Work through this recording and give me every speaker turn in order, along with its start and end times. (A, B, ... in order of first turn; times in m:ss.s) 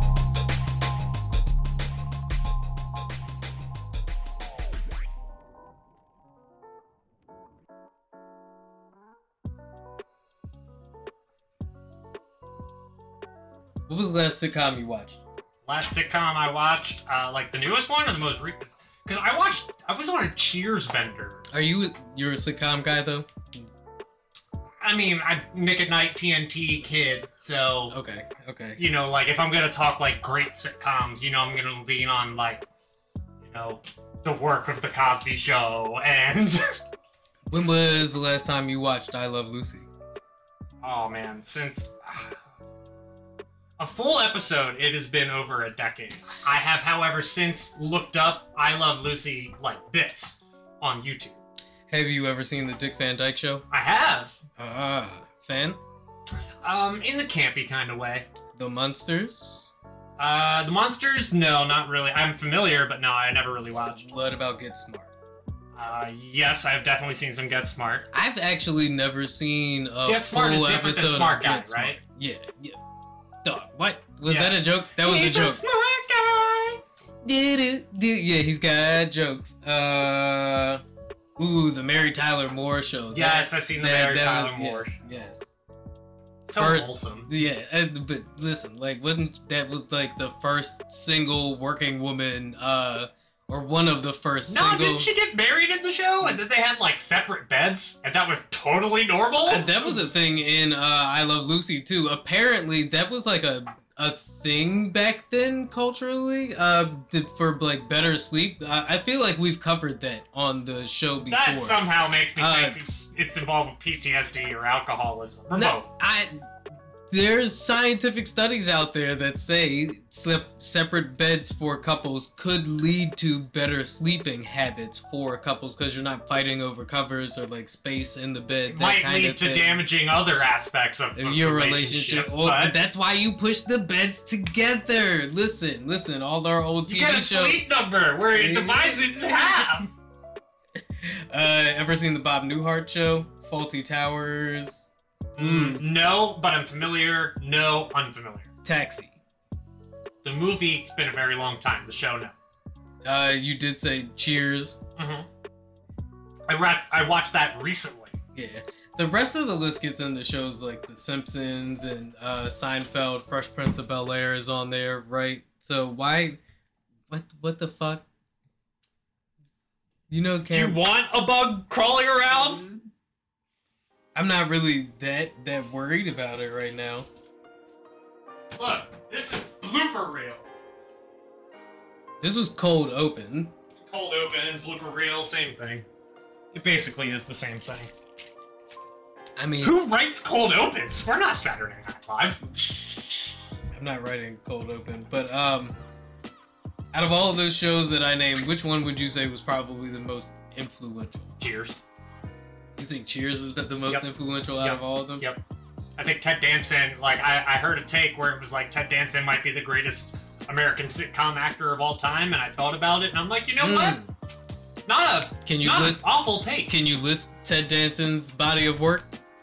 0:13.9-0:15.2 A
0:15.7-0:21.5 B
0:21.5-0:23.3 A
0:24.8-0:28.0 B
0:27.9-0:28.8 A
0:28.8-0:32.6 B
0:33.4-0:36.6 B
0:37.5-0:39.9 A
0:40.8-0:42.4 B
0:43.8-0:51.4 B
0:51.9-0:53.7 A
0:53.7-0:54.4 B
0:54.6-0:55.8 A
0:56.6-0:58.3 B
0:58.6-0:59.7 A
1:00.2-1:04.2 B
1:04.0-1:05.1 A
1:05.8-1:08.1 B
1:08.1-1:12.8 A
1:10.0-1:12.0 B
1:13.4-1:15.6 A
1:14.3-1:16.8 B
1:17.2-1:20.8 A
1:21.4-1:25.5 A
1:23.1-1:25.0 B
1:26.5-1:27.3 B
1:26.6-1:35.1 A
1:34.5-1:40.0 B
1:39.5-1:51.8 A
1:51.3-1:55.9 B
1:52.4-1:52.8 A
1:55.5-1:56.4 A
1:57.1-2:09.8 A
2:08.7-2:12.8 B
2:11.2-2:17.6 A
2:16.9-2:19.9 B
2:18.3-2:19.7 A
2:21.0-2:25.8 A
2:25.4-2:28.5 B
2:28.6-2:29.2 A
2:30.2-2:32.4 B
2:33.0-2:34.8 A
2:35.0-2:35.3 B
2:36.5-2:38.2 B
2:38.4-2:46.4 A
2:47.1-2:48.0 A
2:50.1-2:50.8 A
2:50.5-2:52.7 B
2:54.2-2:57.1 A
2:58.6-3:00.5 B
3:02.2-3:03.5 A
3:03.8-3:05.8 B
3:06.5-3:07.9 B
3:09.4-3:09.8 A
3:09.6-3:13.2 B
3:13.7-3:15.8 A
3:16.9-3:21.3 A
3:21.4-3:21.8 B
3:22.8-3:25.3 A
3:23.9-3:25.4 B
3:26.0-3:34.0 B
3:33.6-3:34.1 A
3:34.9-3:36.7 B
3:35.5-3:39.1 A